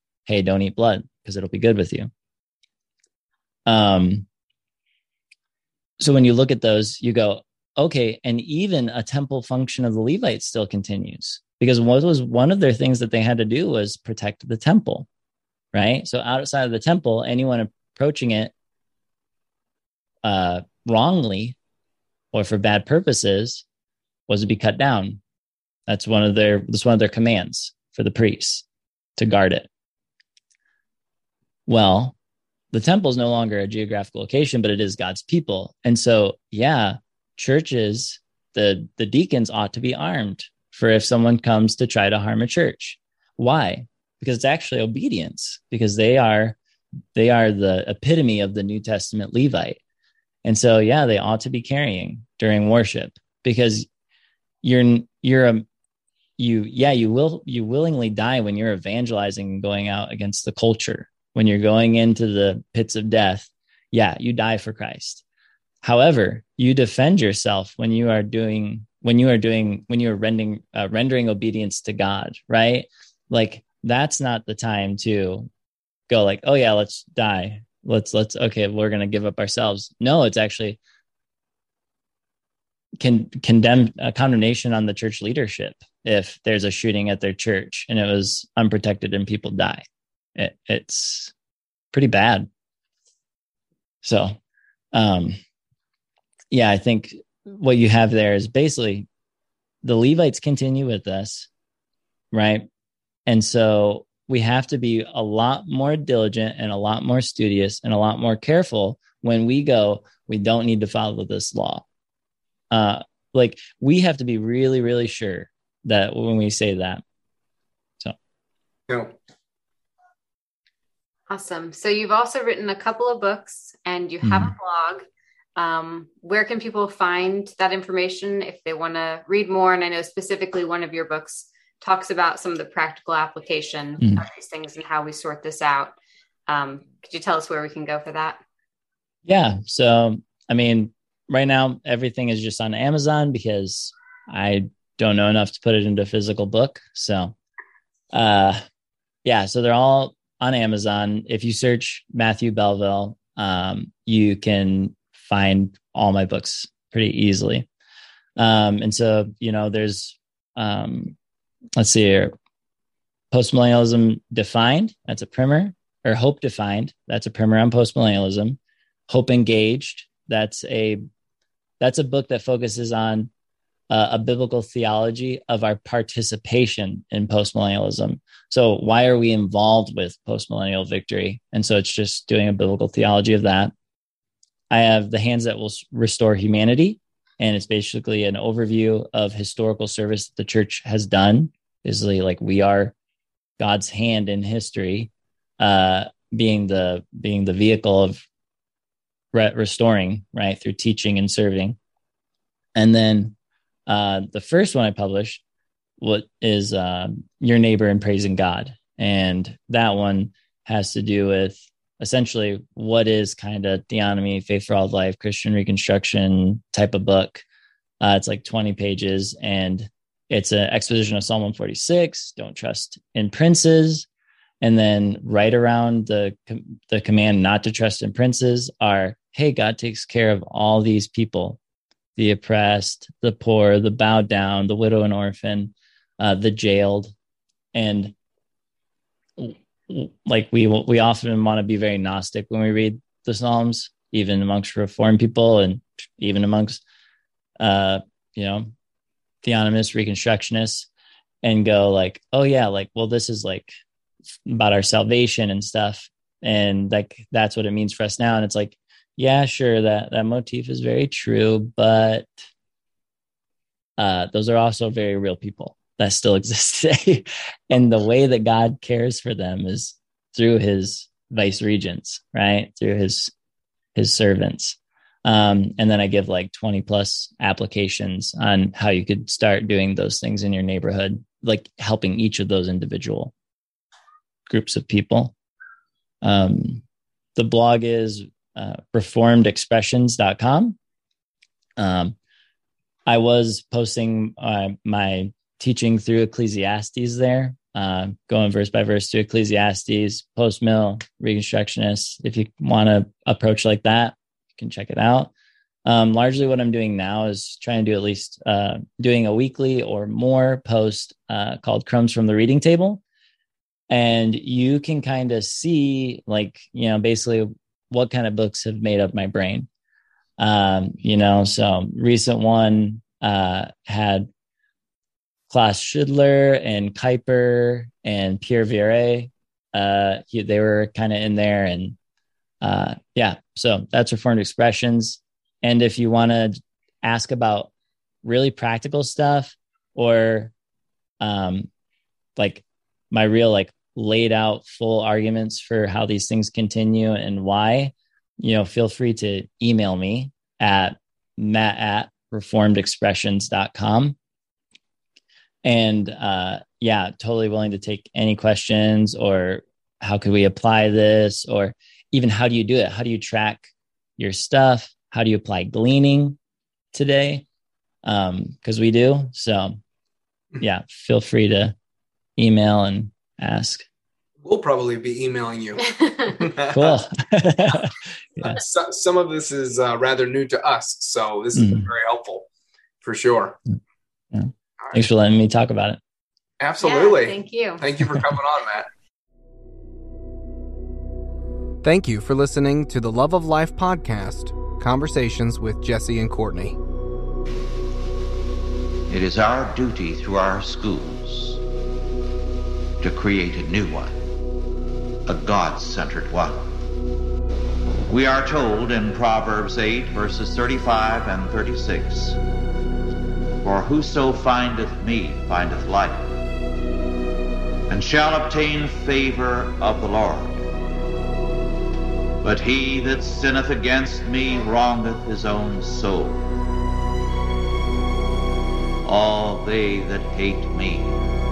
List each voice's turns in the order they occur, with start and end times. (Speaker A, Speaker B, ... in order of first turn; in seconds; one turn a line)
Speaker A: 0.3-2.1
Speaker A: 3.7-4.3
Speaker A: 6.0-15.1
Speaker A: 15.7-18.5
Speaker A: 20.2-21.6
Speaker A: 22.3-23.6
Speaker A: 24.3-25.2
Speaker A: 25.9-28.6
Speaker A: 29.2-29.7
Speaker A: 31.6-32.1
Speaker A: 32.7-46.6
Speaker A: 47.1-49.8
Speaker A: 50.4-53.9
Speaker A: 54.6-55.6
Speaker A: 56.4-65.2
Speaker A: 65.8-75.5
Speaker A: 76.1-80.8
Speaker A: 83.0-89.8
Speaker A: 90.3-91.3
Speaker A: 91.9-92.5
Speaker A: 94.0-94.4
Speaker A: 94.9-95.4
Speaker A: 96.5-99.1
Speaker A: 99.8-101.5
Speaker A: 102.3-102.7
Speaker A: 103.2-111.8
Speaker A: 112.7-117.0
Speaker B: 118.9-119.1
Speaker C: 121.3-125.0
Speaker A: 124.2-124.5
Speaker C: 125.5-135.9
Speaker C: 136.5-138.4
Speaker A: 139.2-147.3
Speaker A: 148.1-148.6
Speaker A: 149.2-157.7
Speaker A: 158.4-161.2
Speaker A: 161.8-162.3
Speaker A: 163.3-171.0
Speaker A: 171.8-173.3
Speaker A: 173.9-183.7
Speaker A: 184.7-192.9
Speaker A: 193.6-198.2
Speaker A: 199.3-201.8
Speaker A: 202.8-203.3
Speaker A: 203.9-205.4
Speaker A: 206.0-217.4
Speaker A: 218.0-224.1
Speaker A: 224.6-231.6
Speaker A: 232.2-237.1
Speaker A: 237.7-238.1
Speaker A: 239.4-246.8
Speaker A: 247.6-248.7
Speaker A: 249.4-250.9
Speaker A: 251.4-253.7
Speaker A: 254.4-262.3
Speaker A: 264.0-273.3
Speaker A: 273.9-283.3
Speaker A: 284.5-285.3
Speaker A: 286.2-286.8
Speaker A: 287.4-290.8
Speaker A: 291.8-292.1
Speaker A: 293.1-305.3
Speaker A: 305.8-313.0
Speaker A: 313.9-319.7
Speaker A: 320.4-324.3
Speaker A: 325.5-332.0
Speaker A: 332.6-337.7
Speaker A: 338.2-340.5
Speaker A: 341.2-341.7
Speaker A: 342.4-354.1
Speaker A: 355.6-366.4
Speaker A: 366.9-367.4
Speaker A: 368.0-369.8
Speaker A: 370.6-371.7
Speaker A: 372.4-373.8
Speaker B: 374.4-377.0
Speaker C: 376.0-376.3
Speaker A: 376.7-378.6
Speaker B: 378.4-382.5
Speaker A: 381.5-381.9
Speaker B: 383.0-383.6
Speaker A: 384.3-386.0
Speaker B: 386.6-388.9
Speaker C: 386.8-387.8
Speaker D: 391.8-396.8
Speaker E: 399.1-401.6
Speaker E: 403.0-404.1
Speaker E: 405.3-406.7
Speaker E: 408.1-412.4
Speaker E: 413.6-416.3
Speaker E: 417.9-420.6
Speaker E: 422.4-426.4
Speaker E: 429.0-431.1